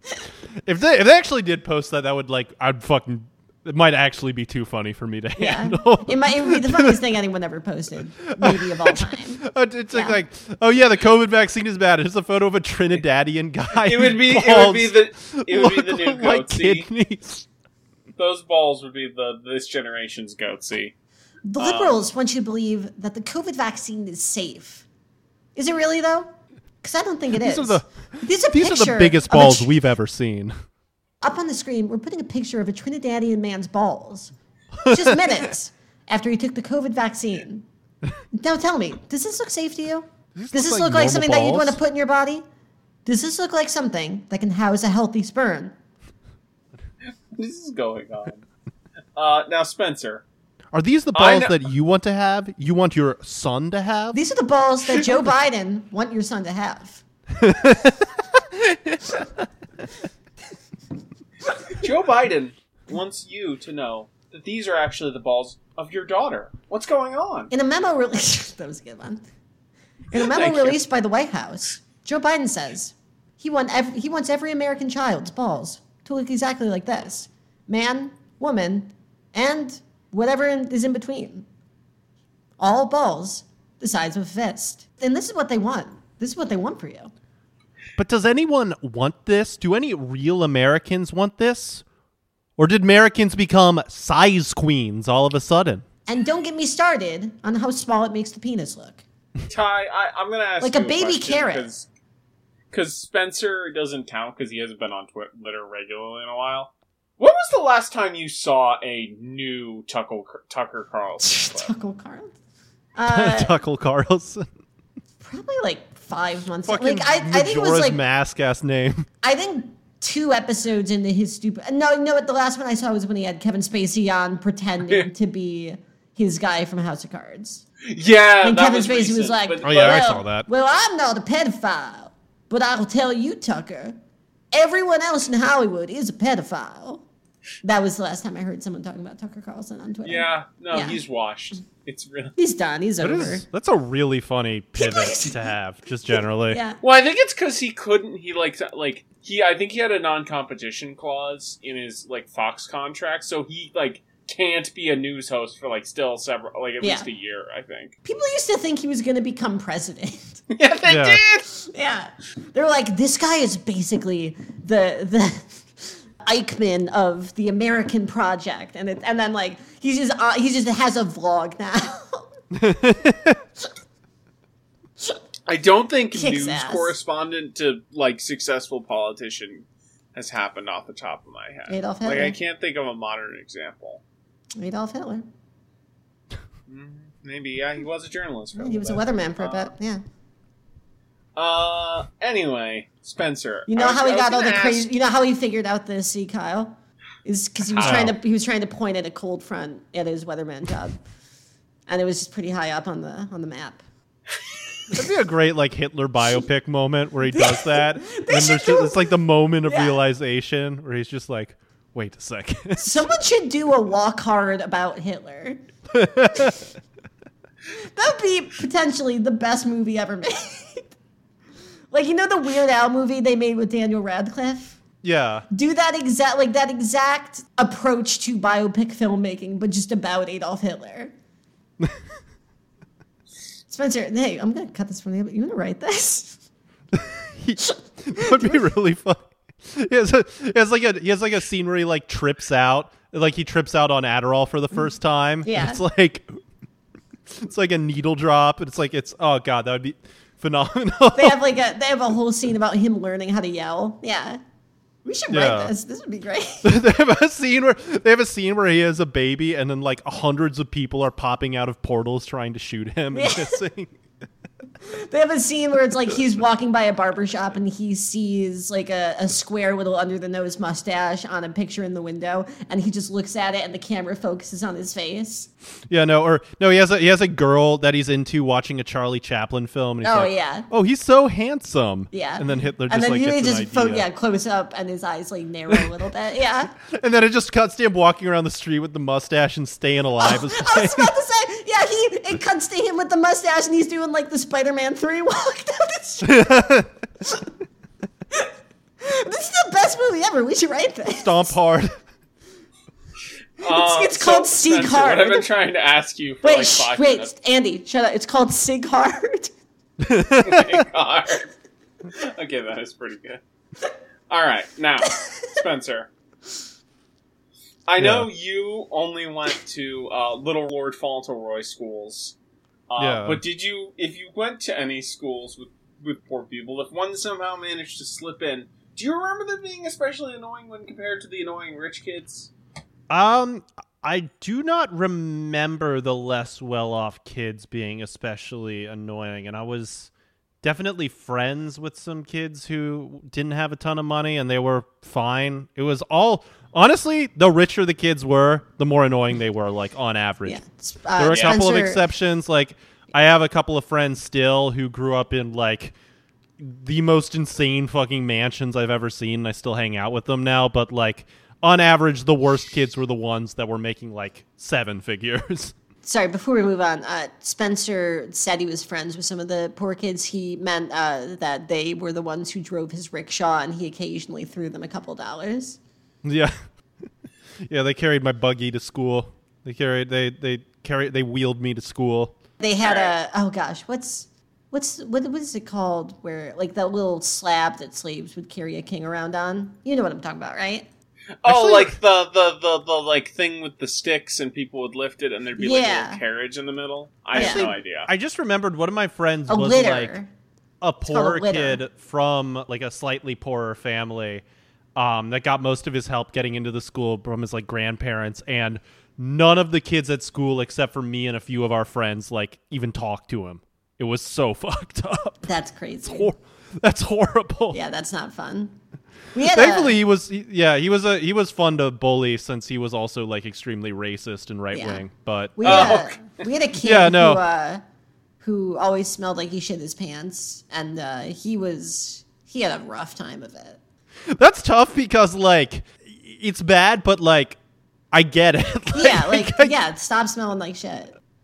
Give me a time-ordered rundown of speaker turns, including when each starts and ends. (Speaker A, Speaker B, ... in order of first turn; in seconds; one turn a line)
Speaker A: 0.6-7.0
Speaker B: 5.4-10.2
Speaker A: 8.2-17.4
Speaker C: 13.8-16.9
Speaker C: 18.2-20.9
Speaker B: 21.5-24.9
Speaker C: 21.6-22.0
Speaker B: 25.5-26.3
Speaker B: 26.8-29.8
Speaker A: 27.4-30.5
Speaker B: 31.2-34.3
Speaker A: 34.8-35.5
Speaker B: 34.8-37.6
Speaker B: 38.3-42.4
Speaker A: 40.3-41.8
Speaker B: 43.0-45.7
Speaker C: 47.3-48.4
Speaker C: 49.1-50.2
Speaker A: 50.7-54.2
Speaker C: 51.1-51.6
Speaker B: 54.1-57.0
Speaker A: 57.4-59.2
Speaker C: 61.7-67.5
Speaker B: 67.5-69.2
Speaker B: 70.1-81.5
Speaker C: 70.2-70.8
Speaker B: 82.6-87.1
Speaker A: 88.0-91.8
Speaker A: 92.6-95.8
Speaker B: 96.1-99.0
Speaker C: 99.5-101.9
Speaker B: 100.6-101.7
Speaker C: 102.7-111.7
Speaker B: 111.2-112.3
Speaker B: 113.0-113.5
Speaker A: 113.1-114.5
Speaker B: 115.2-118.0
Speaker A: 116.6-119.1
Speaker B: 119.2-127.6
Speaker C: 127.8-130.1
Speaker B: 128.4-133.9
Speaker A: 129.6-130.5
Speaker B: 134.5-137.0
Speaker B: 137.6-141.0
Speaker C: 140.0-142.3
Speaker B: 142.4-143.4
Speaker A: 143.0-146.6
Speaker B: 144.8-145.4
Speaker B: 146.5-146.8
Speaker C: 146.8-157.9
Speaker B: 156.8-157.1
Speaker B: 158.0-160.4
Speaker C: 160.5-161.4
Speaker A: 160.8-161.2
Speaker B: 161.5-172.3
Speaker A: 172.5-173.4
Speaker C: 175.5-184.0
Speaker B: 176.1-176.9
Speaker B: 181.7-182.4
Speaker B: 184.6-185.2
Speaker C: 186.7-189.7
Speaker B: 188.6-190.0
Speaker C: 191.3-194.9
Speaker B: 193.7-201.0
Speaker C: 197.7-198.1
Speaker A: 197.8-198.2
Speaker B: 201.9-203.8
Speaker A: 204.9-213.1
Speaker B: 207.3-209.1
Speaker B: 209.7-210.0
Speaker B: 212.8-215.6
Speaker A: 215.9-216.7
Speaker B: 217.8-220.9
Speaker B: 221.9-224.8
Speaker A: 225.0-225.4
Speaker B: 225.5-231.1
Speaker B: 233.7-236.4
Speaker A: 236.9-246.4
Speaker B: 237.6-238.6
Speaker B: 245.4-245.8
Speaker A: 247.3-251.4
Speaker B: 251.1-254.4
Speaker B: 255.0-256.7
Speaker A: 255.3-255.7
Speaker A: 256.6-263.9
Speaker B: 263.1-263.6
Speaker B: 264.8-275.5
Speaker A: 275.9-284.1
Speaker B: 280.0-280.7
Speaker B: 282.1-286.7
Speaker A: 285.7-285.9
Speaker A: 286.8-291.1
Speaker B: 290.2-296.6
Speaker A: 296.2-296.9
Speaker B: 299.0-301.5
Speaker A: 301.2-301.9
Speaker C: 303.6-307.3
Speaker B: 303.6-305.5
Speaker B: 306.4-309.5
Speaker A: 310.0-310.8
Speaker C: 310.4-311.5
Speaker C: 312.1-313.4
Speaker C: 314.3-316.1
Speaker C: 317.9-322.3
Speaker A: 318.0-318.3
Speaker C: 322.9-332.5
Speaker A: 323.0-323.4
Speaker A: 333.1-340.1
Speaker A: 340.6-350.6
Speaker B: 350.4-352.0
Speaker A: 351.2-355.9
Speaker C: 351.3-351.6
Speaker A: 356.6-365.7
Speaker B: 366.0-375.8
Speaker A: 376.2-376.6
Speaker A: 377.6-382.3
Speaker B: 382.6-390.9
Speaker C: 382.8-383.1
Speaker C: 391.4-398.1
Speaker A: 391.4-392.0
Speaker B: 395.6-396.2
Speaker B: 397.3-397.7
Speaker A: 397.3-400.1
Speaker B: 399.5-400.3
Speaker A: 400.8-404.4
Speaker B: 401.1-401.8
Speaker A: 404.9-415.5
Speaker B: 415.4-416.3
Speaker A: 416.0-417.8
Speaker B: 417.7-418.7
Speaker B: 419.3-420.0
Speaker A: 419.4-426.0
Speaker B: 424.7-425.0
Speaker B: 425.6-427.8
Speaker C: 425.6-426.3
Speaker A: 426.8-427.4
Speaker B: 428.4-433.8
Speaker A: 434.3-437.6
Speaker A: 438.1-439.7
Speaker B: 438.9-441.1